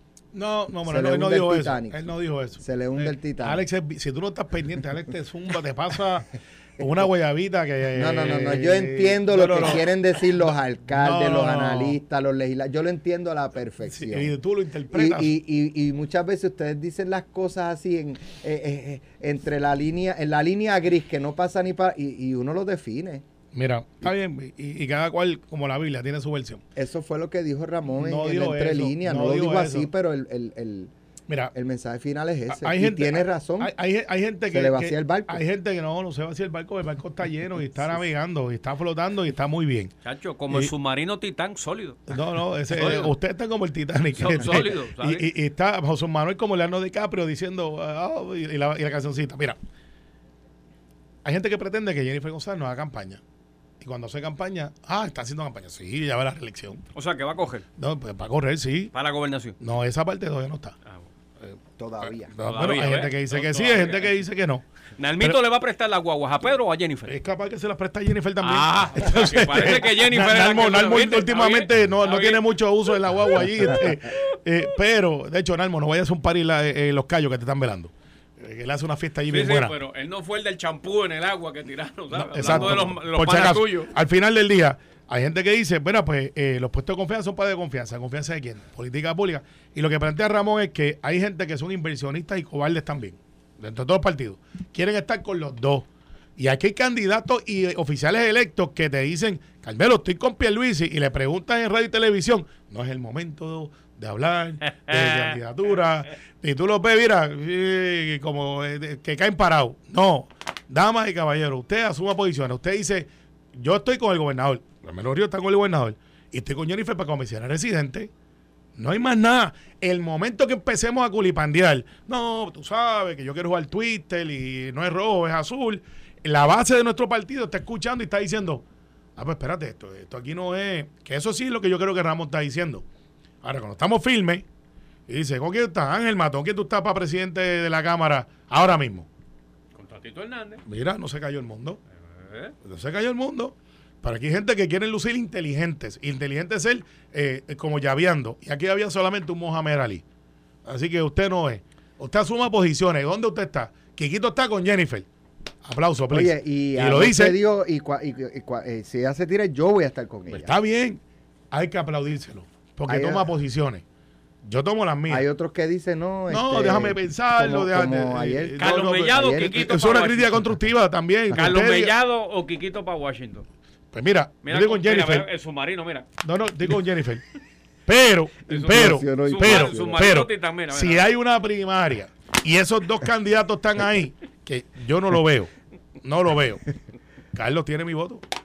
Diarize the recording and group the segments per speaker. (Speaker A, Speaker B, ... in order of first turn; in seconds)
Speaker A: 0.3-9.8, 10.5-12.0, 13.9-15.3, 23.5-26.6, 27.9-29.9, 32.5-39.9, 42.1-49.6, 51.2-53.2, 53.8-56.8, 57.8-58.9, 59.6-60.7, 61.4-64.6, 67.1-79.7, 82.1-95.8, 96.4-118.1, 118.8-128.6, 129.2-132.8, 133.4-134.4, 135.1-139.1, 140.7-141.8, 142.6-150.0, 150.7-155.1, 155.6-157.4, 160.3-161.0, 161.5-163.8, 164.4-165.2, 166.3-171.9, 173.9-175.3, 176.2-177.2, 177.8-185.5, 186.0-186.7, 187.3-188.2
Speaker B: 0.8-2.0, 2.6-3.6, 8.0-14.3, 14.9-23.2, 26.8-30.9, 31.5-33.7, 34.5-35.4, 61.8-62.3, 156.1-160.5, 162.9-163.3, 165.1-168.6, 169.1-169.6, 178.6-180.1
Speaker C: 40.0-42.1, 42.7-43.1, 44.2-45.2, 56.9-57.6, 58.9-59.5, 62.4-64.1, 65.0-67.1, 68.4-72.4, 73.4-74.2, 79.3-83.9, 104.9-105.4, 139.8-140.6, 142.0-142.5, 168.6-170.4, 171.3-173.4, 174.4-176.1, 178.5-181.1